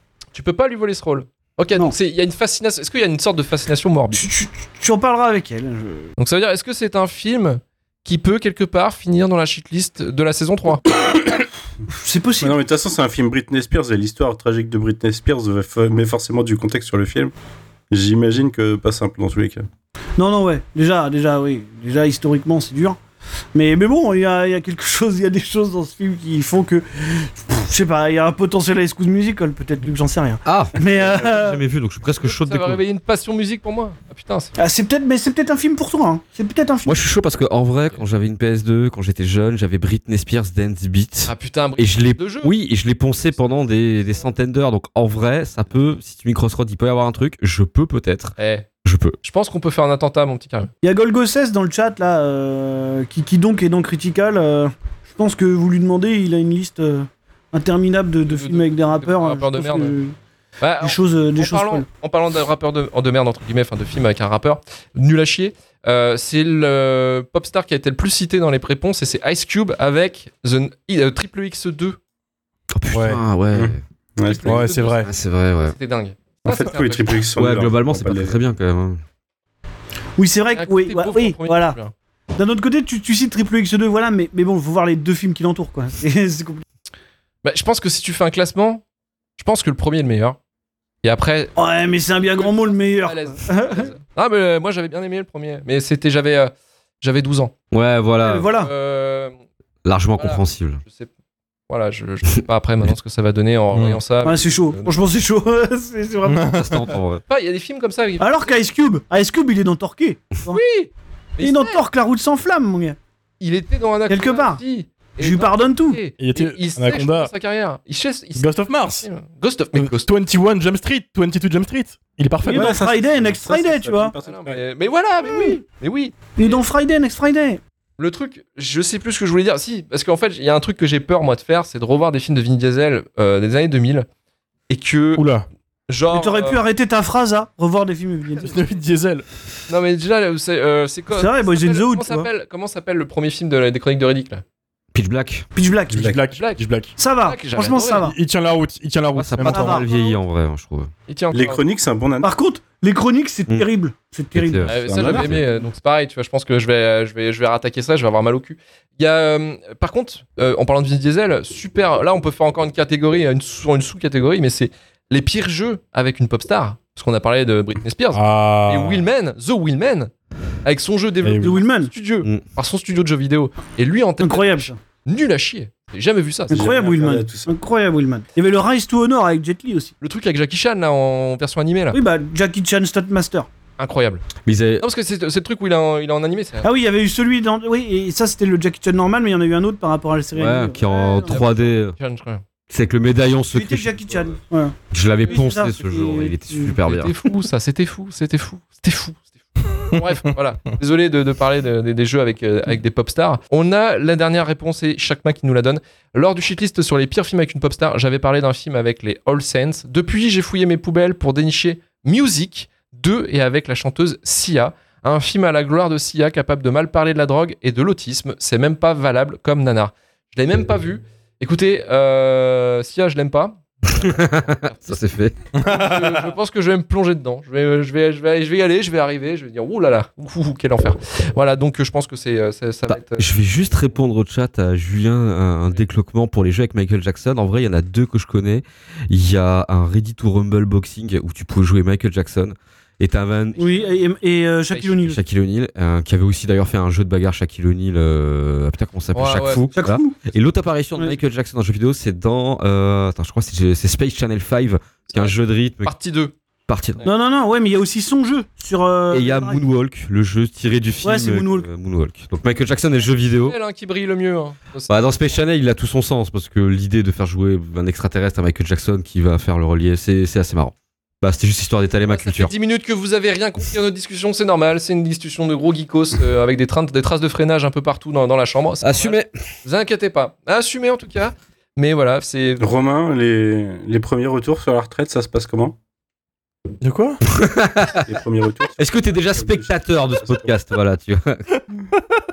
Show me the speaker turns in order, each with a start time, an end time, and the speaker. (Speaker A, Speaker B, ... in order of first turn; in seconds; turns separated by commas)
Speaker A: 0.3-4.3, Speaker B: 4.1-6.1, Speaker A: 6.2-10.8, Speaker B: 11.9-12.6, Speaker C: 12.4-17.3, Speaker C: 17.9-19.6, Speaker B: 20.2-23.0, Speaker B: 23.5-31.6, Speaker D: 30.4-32.8, Speaker A: 32.2-34.5, Speaker B: 34.6-37.0, Speaker D: 36.8-49.2, Speaker A: 41.3-42.5, Speaker A: 48.4-48.7, Speaker A: 49.2-50.7, Speaker B: 50.8-60.1, Speaker A: 58.2-60.0, Speaker A: 60.6-72.0, Speaker B: 60.8-61.9, Speaker D: 72.7-73.8, Speaker E: 72.9-73.2, Speaker C: 73.5-74.6, Speaker A: 74.2-77.1, Speaker E: 74.5-75.1, Speaker D: 75.0-75.8, Speaker C: 76.5-78.4, Speaker D: 77.3-79.0, Speaker B: 80.2-81.8, Speaker A: 80.5-81.9, Speaker B: 82.3-86.6, Speaker A: 87.4-88.8, Speaker A: 89.4-90.4, Speaker A: 91.0-91.5, Speaker B: 91.5-93.9, Speaker A: 92.3-97.5, Speaker D: 97.7-98.5, Speaker B: 98.2-98.7, Speaker A: 98.6-99.3, Speaker D: 99.8-100.8, Speaker A: 100.2-101.1, Speaker A: 101.7-104.9, Speaker E: 103.7-104.0, Speaker B: 104.2-106.5, Speaker E: 106.2-106.9, Speaker D: 106.5-107.2, Speaker A: 107.3-108.5, Speaker B: 108.2-110.6, Speaker A: 110.5-111.8, Speaker B: 111.4-113.0, Speaker A: 113.4-120.1, Speaker B: 114.1-114.6, Speaker B: 115.2-116.0, Speaker E: 116.2-117.3, Speaker E: 118.3-119.1, Speaker E: 119.7-122.8, Speaker B: 122.4-124.1, Speaker C: 122.5-124.6, Speaker A: 124.2-126.7, Speaker B: 125.3-125.6, Speaker B: 126.3-127.6, Speaker A: 128.0-134.1, Speaker A: 134.7-135.3, Speaker E: 135.2-135.4, Speaker A: 135.9-136.6, Speaker B: 136.1-138.7, Speaker E: 138.4-139.2, Speaker A: 139.7-144.4, Speaker B: 141.1-142.3, Speaker D: 144.9-145.4, Speaker B: 145.5-146.1, Speaker E: 145.9-146.9, Speaker C: 145.9-146.2, Speaker A: 146.3-146.6, Speaker B: 147.0-148.2, Speaker A: 147.2-148.1, Speaker E: 148.0-149.8, Speaker D: 149.2-150.9, Speaker A: 149.4-150.2, Speaker B: 149.4-149.9, Speaker A: 151.1-151.6, Speaker C: 151.3-152.3, Speaker B: 152.2-155.2, Speaker D: 154.3-155.4, Speaker A: 154.6-170.1, Speaker C: 154.8-155.4, Speaker E: 168.1-169.1, Speaker A: 170.6-176.7, Speaker E: 171.2-171.5, Speaker B: 171.4-171.9, Speaker B: 174.2-174.8, Speaker C: 176.5-177.5, Speaker B: 176.5-179.9, Speaker A: 180.0-182.0, Speaker B: 181.9-183.5, Speaker A: 183.8-184.3, Speaker D: 184.4-184.8, Speaker A: 184.8-186.7, Speaker B: 186.6-191.4, Speaker D: 190.3-191.9, Speaker A: 191.1-192.4, Speaker D: 192.7-194.0, Speaker B: 193.5-194.8, Speaker D: 194.9-197.1, Speaker B: 195.3-196.8, Speaker A: 196.8-225.0, Speaker D: 224.0-225.3, Speaker E: 225.6-226.3, Speaker A: 225.6-233.3, Speaker D: 232.9-243.7, Speaker B: 243.6-245.2, Speaker D: 245.0-255.9, Speaker A: 249.1-249.7, Speaker B: 249.7-250.2, Speaker A: 255.1-256.3, Speaker D: 256.7-257.0, Speaker B: 257.0-259.6, Speaker D: 259.1-263.6, Speaker B: 261.0-261.7, Speaker A: 263.4-265.4, Speaker D: 264.9-272.5, Speaker A: 272.1-282.7, Speaker D: 278.8-279.3, Speaker C: 282.6-285.7, Speaker E: 286.8-287.2, Speaker D: 287.3-288.1, Speaker C: 288.0-290.4, Speaker D: 288.8-291.4